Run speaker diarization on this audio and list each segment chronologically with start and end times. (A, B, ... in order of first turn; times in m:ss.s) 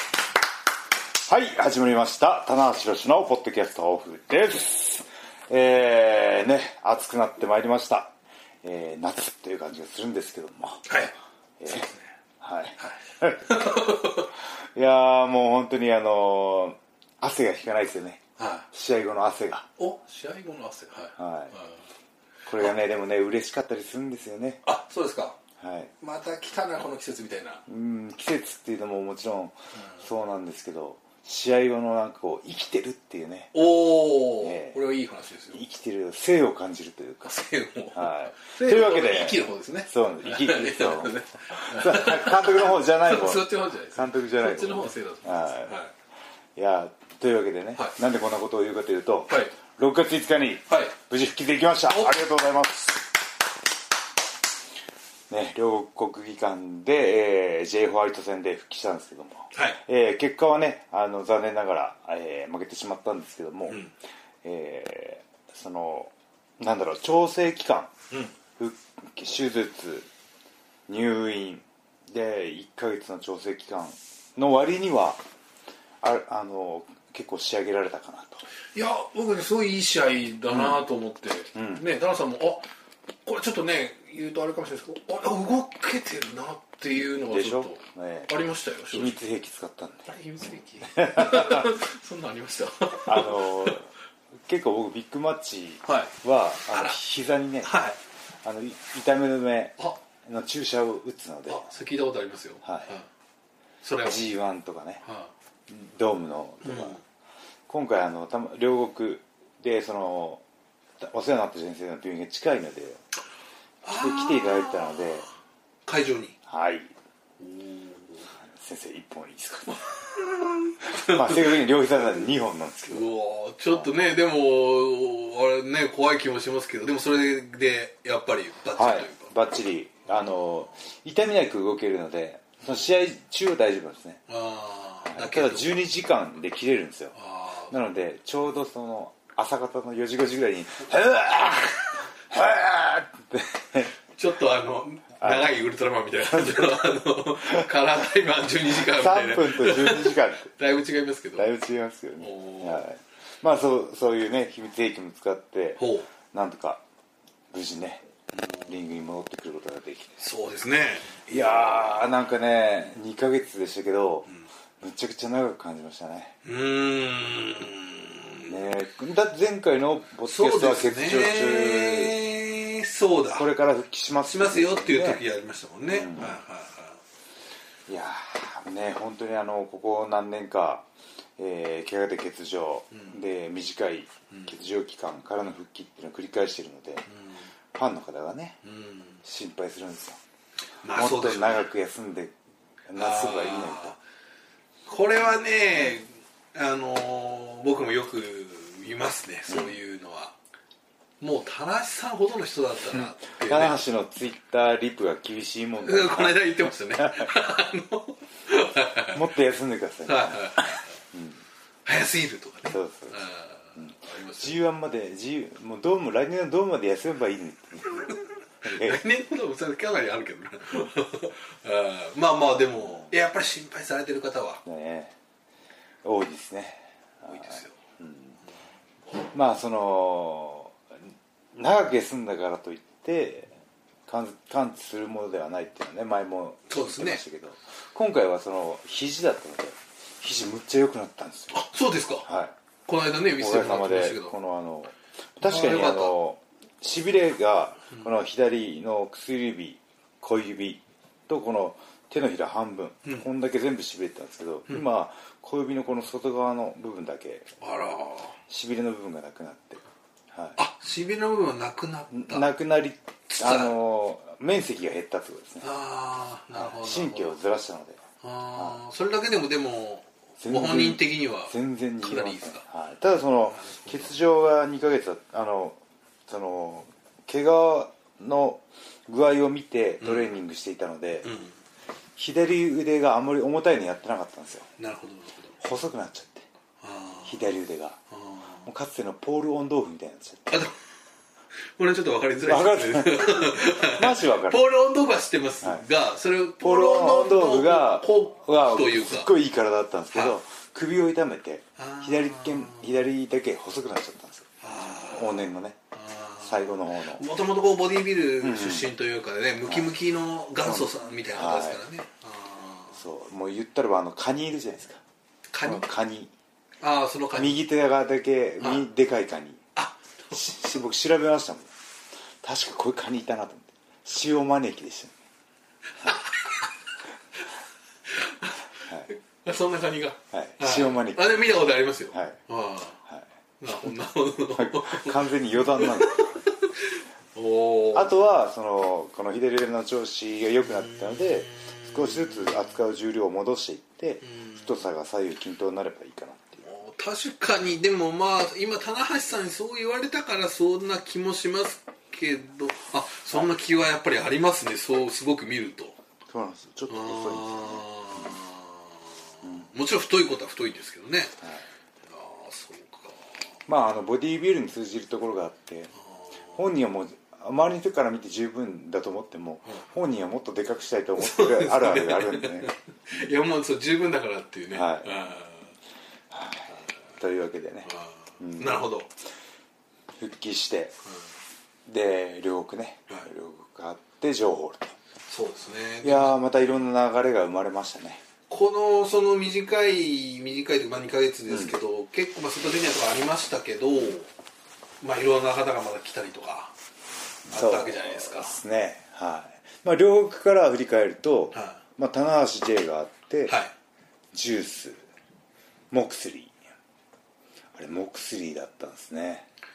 0:01.2-0:11.0 A
0:10.9-0:11.1 B
0:11.6-0:11.9 A
0:11.7-0:12.1 B
0:12.4-0:13.8 A
0:12.8-0:14.3 B
0:14.6-0:19.7 A
0:18.4-0:18.7 B
0:19.8-0:21.8 B
0:21.2-0:21.5 A
0:22.4-0:24.6 A
0:24.6-0:25.4 B
0:25.6-0:25.9 A
0:26.0-0:27.6 B
0:27.7-0:33.5 A
0:33.5-0:35.6 B
0:34.4-0:34.8 A
0:35.5-0:37.4 A
0:37.2-0:45.9 B
0:37.9-0:45.7 A
0:46.5-0:53.0 A
0:49.3-0:49.6 B
0:50.7-0:51.0 B
0:51.9-0:52.2 B
0:55.3-1:03.8 A
0:59.5-0:59.8 B
1:03.7-1:03.9 B
1:04.4-1:07.9 A
1:08.6-1:10.1 A
1:10.9-1:15.2 A
1:16.0-1:18.4 A
1:18.7-1:22.7 B
1:20.5-1:20.8 A
1:21.5-1:21.8 A
1:23.2-1:29.2 B
1:27.3-1:28.3 A
1:28.9-1:30.1 A
1:30.1-1:33.8 B
1:30.9-1:31.7 A
1:33.0-1:33.9 A
1:34.4-1:37.8 A
1:35.8-1:36.1 B
1:36.7-1:37.0 B
1:37.6-1:38.0 B
1:38.4-1:41.7 A
1:41.5-1:43.0 B
1:42.6-1:42.9 A
1:43.8-1:44.3 B
1:44.0-1:45.0 A
1:45.0-1:45.3 B
1:45.7-1:47.0 A
1:46.6-1:47.0 B
1:47.7-1:50.4 A
1:51.0-1:53.0 A
1:53.8-1:55.3 B
1:53.9-1:55.3 A
1:55.8-1:56.3 B
1:56.5-1:56.9 A
1:57.4-1:58.3 B
1:58.4-1:59.8 A
1:59.7-2:02.3 B
2:00.8-2:03.1 A
2:02.9-2:09.6 B
2:08.7-2:14.2 A
2:14.3-2:15.8 B
2:15.0-2:17.2 A
2:17.1-2:17.7 B
2:17.7-2:23.9 A
2:24.1-2:31.5 B
2:25.2-2:25.6 A
2:26.3-2:26.8 A
2:28.7-2:30.5 A
2:31.4-2:36.8 A
2:32.2-2:32.9 B
2:35.8-2:36.1 B
2:37.5-2:38.0 A
2:38.3-2:38.7 B
2:38.6-2:40.2 A
2:40.2-2:42.2 B
2:41.2-2:44.3 A
2:44.8-2:46.4 A
2:46.4-2:48.5 B
2:48.4-2:52.2 A
2:50.2-2:53.5 B
2:53.3-2:55.2 A
2:54.2-2:57.0 B
2:55.9-2:56.4 A
2:57.9-3:07.0 A
3:02.9-3:03.2 B
3:07.1-3:07.5 B
3:07.7-3:08.6 A
3:08.6-3:09.2 B
3:09.2-3:10.2 A
3:10.8-3:11.7 B
3:10.9-3:12.4 A
3:12.9-3:14.0 A
3:12.9-3:14.0 B
3:14.8-3:20.4 B
3:19.5-3:19.8 A
3:21.2-3:23.8 B
3:22.9-3:27.3 A
3:25.8-3:29.3 B
3:29.1-3:31.4 A
3:30.0-3:30.9 B
3:31.8-3:34.5 B
3:32.7-3:33.2 A
3:33.8-3:39.0 A
3:38.0-3:44.6 B
3:44.6-3:45.1 A
3:46.0-3:48.4 A
3:47.2-3:47.8 B
3:49.2-3:50.8 A
3:51.5-3:53.5 A
3:54.1-4:01.6 A
3:56.7-3:57.2 B
4:01.5-4:02.3 B
4:02.2-4:02.5 A
4:02.8-4:04.4 B
4:03.4-4:17.5 A
4:05.4-4:06.2 B
4:17.6-4:18.4 B
4:18.5-4:20.6 A
4:20.6-4:22.5 B
4:22.1-4:25.7 A
4:23.3-4:23.8 B
4:25.6-4:27.4 B
4:26.5-4:28.0 A
4:28.2-4:32.6 B
4:30.4-4:41.3 A
4:33.5-4:34.1 B
4:40.0-4:40.3 B
4:41.2-4:41.6 B
4:42.2-4:44.7 A
4:44.8-4:45.6 B
4:45.6-4:46.5 A
4:46.8-4:47.4 B
4:47.2-4:48.0 A
4:48.1-4:48.6 B
4:48.6-4:50.6 A
4:50.5-4:50.8 B
4:51.6-4:59.3 B
4:52.4-4:54.7 A
4:56.6-5:04.5 A
5:01.8-5:03.0 B
5:04.6-5:13.0 B
5:05.0-5:05.8 A
5:06.4-5:07.2 A
5:08.4-5:08.9 A
5:09.6-5:09.9 A
5:10.6-5:11.8 A
5:12.9-5:15.0 A
5:15.5-5:15.9 B
5:15.6-5:16.3 A
5:16.8-5:17.6 B
5:17.4-5:19.6 A
5:19.8-5:20.7 B
5:20.3-5:21.7 A
5:22.4-5:25.2 A
5:26.0-5:26.3 B
5:28.1-5:33.0 B
5:30.3-5:31.5 A
5:32.1-5:32.4 A
5:33.6-5:38.2 B
5:34.6-5:36.4 A
5:37.9-5:46.6 A
5:40.6-5:42.8 B
5:44.2-5:44.7 B
5:46.6-5:56.0 B
5:56.3-5:58.4 A
5:56.9-6:01.4 B
5:59.4-5:59.7 A
6:01.4-6:01.6 A
6:02.1-6:03.3 B
6:03.7-6:05.9 A
6:06.0-6:06.6 B
6:06.5-6:13.3 A
6:11.2-6:15.7 B
6:14.7-6:15.1 A
6:16.3-6:18.9 A
6:17.8-6:19.1 B
6:20.2-6:21.0 A
6:21.8-6:25.0 A
6:25.3-6:26.7 B
6:26.0-6:28.2 A
6:28.5-6:34.3 B
6:31.5-6:31.8 A
6:35.0-6:36.7 B
6:37.5-6:38.6 B
6:37.5-6:43.5 A
6:41.5-6:41.8 B
6:43.5-6:43.7 B
6:44.3-6:45.0 A
6:45.9-6:46.6 A
6:47.7-6:49.4 A